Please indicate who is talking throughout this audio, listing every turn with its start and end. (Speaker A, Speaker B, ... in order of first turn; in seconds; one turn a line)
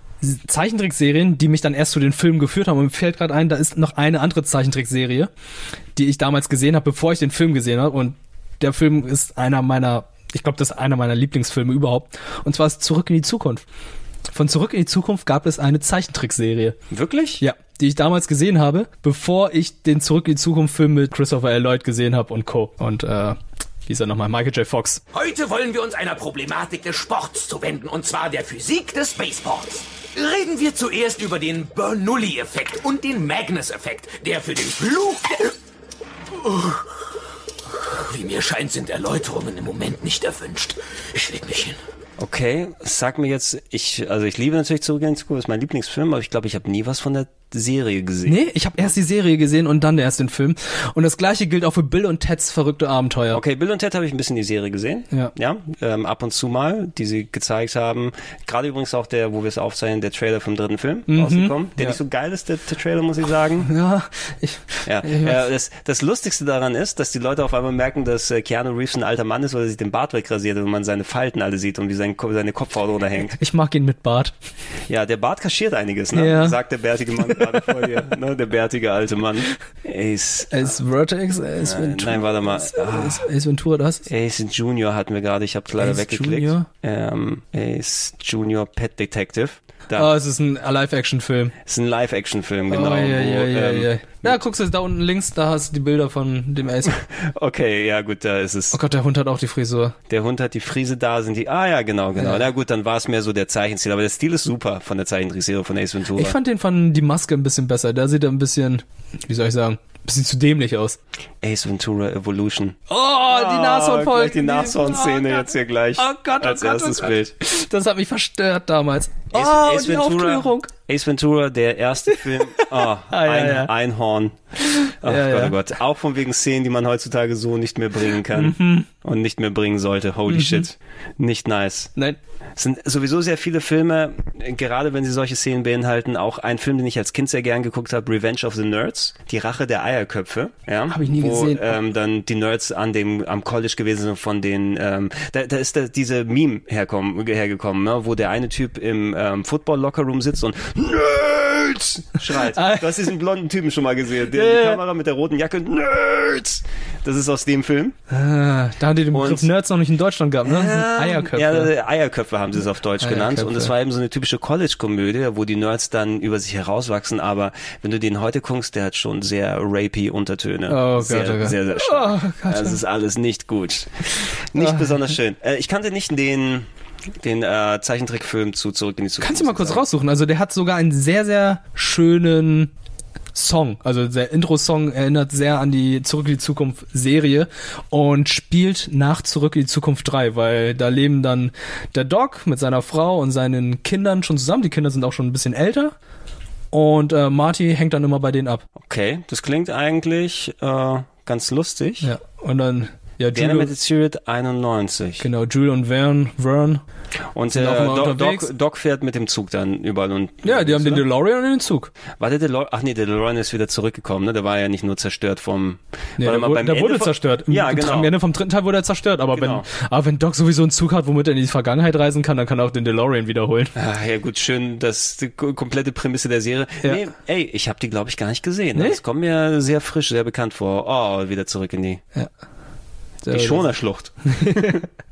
Speaker A: 0.2-5.3
Speaker A: 5.9-13.6
Speaker A: 14.3-16.8
Speaker B: 16.9-17.4
Speaker A: 17.4-25.0
Speaker C: 25.1-35.5
Speaker C: 36.4-36.8
Speaker C: 38.0-41.8
Speaker B: 42.2-48.9
Speaker A: 48.2-53.4
Speaker B: 53.3-63.7
Speaker A: 61.1-62.0
Speaker A: 63.7-65.4
Speaker B: 64.8-73.4
Speaker A: 73.3-74.3
Speaker B: 74.9-80.8
Speaker A: 76.1-76.6
Speaker A: 80.5-84.1
Speaker B: 81.6-83.2
Speaker B: 84.0-90.1
Speaker A: 85.8-86.7
Speaker A: 89.9-91.5
Speaker B: 91.7-94.4
Speaker A: 92.7-96.9
Speaker B: 96.9-98.8
Speaker A: 98.7-100.0
Speaker B: 100.1-106.3
Speaker A: 102.2-102.4
Speaker A: 106.2-111.0
Speaker B: 111.4-112.8
Speaker A: 112.9-120.7
Speaker B: 113.3-117.3
Speaker B: 119.3-124.4
Speaker A: 122.1-123.7
Speaker A: 124.8-125.5
Speaker B: 125.0-131.9
Speaker A: 128.3-128.9
Speaker A: 130.3-130.7
Speaker B: 132.6-157.9
Speaker A: 140.9-141.7
Speaker A: 152.5-152.9
Speaker A: 154.3-154.8
Speaker A: 158.1-161.7
Speaker B: 159.1-159.5
Speaker B: 160.4-176.7
Speaker A: 163.0-163.7
Speaker A: 170.7-172.8
Speaker A: 174.6-174.9
Speaker B: 177.2-179.8
Speaker A: 179.2-182.7
Speaker A: 183.3-195.9
Speaker A: 196.7-198.6
Speaker B: 198.8-202.1
Speaker A: 202.0-203.7
Speaker B: 203.3-205.2
Speaker A: 205.2-206.8
Speaker B: 207.3-211.0
Speaker A: 207.5-208.5
Speaker A: 210.4-211.9
Speaker B: 212.2-218.1
Speaker A: 216.2-223.7
Speaker B: 219.3-219.6
Speaker B: 223.7-232.0
Speaker A: 233.2-233.6
Speaker B: 233.3-234.8
Speaker A: 234.3-234.8